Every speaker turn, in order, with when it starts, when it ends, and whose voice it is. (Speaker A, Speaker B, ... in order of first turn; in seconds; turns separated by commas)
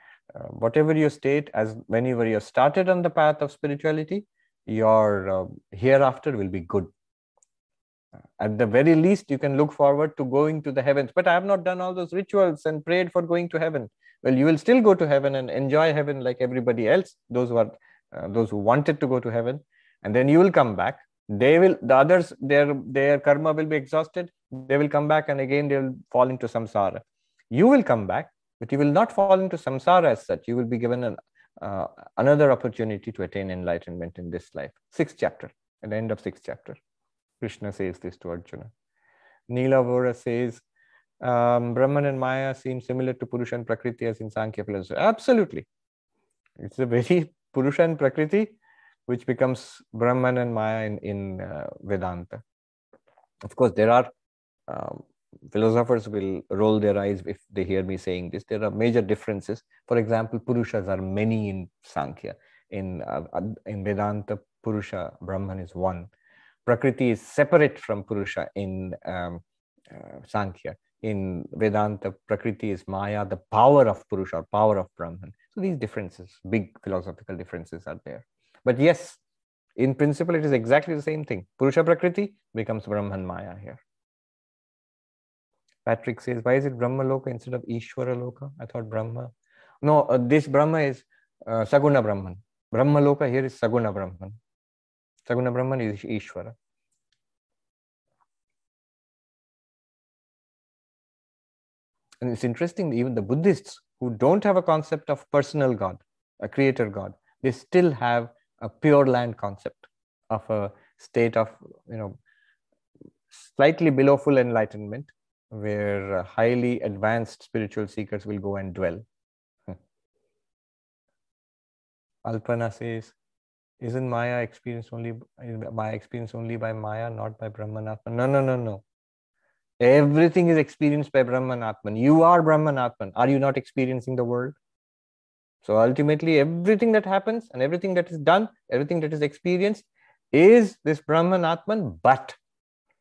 Speaker A: 0.3-6.9, Speaker A: 8.4-36.8, Speaker A: 37.4-38.7, Speaker A: 39.5-40.6, Speaker A: 41.2-45.7, Speaker A: 46.6-48.6, Speaker A: 49.1-52.4, Speaker A: 53.5-54.1, Speaker A: 54.7-66.1, Speaker A: 66.7-79.2, Speaker A: 79.8-83.8, Speaker A: 85.9-89.3, Speaker A: 89.8-94.4, Speaker A: 95.3-96.5, Speaker A: 102.2-112.2, Speaker A: 113.3-119.0, Speaker A: 122.2-123.2, Speaker A: 123.8-128.8, Speaker A: 129.8-134.6, Speaker A: 135.6-142.4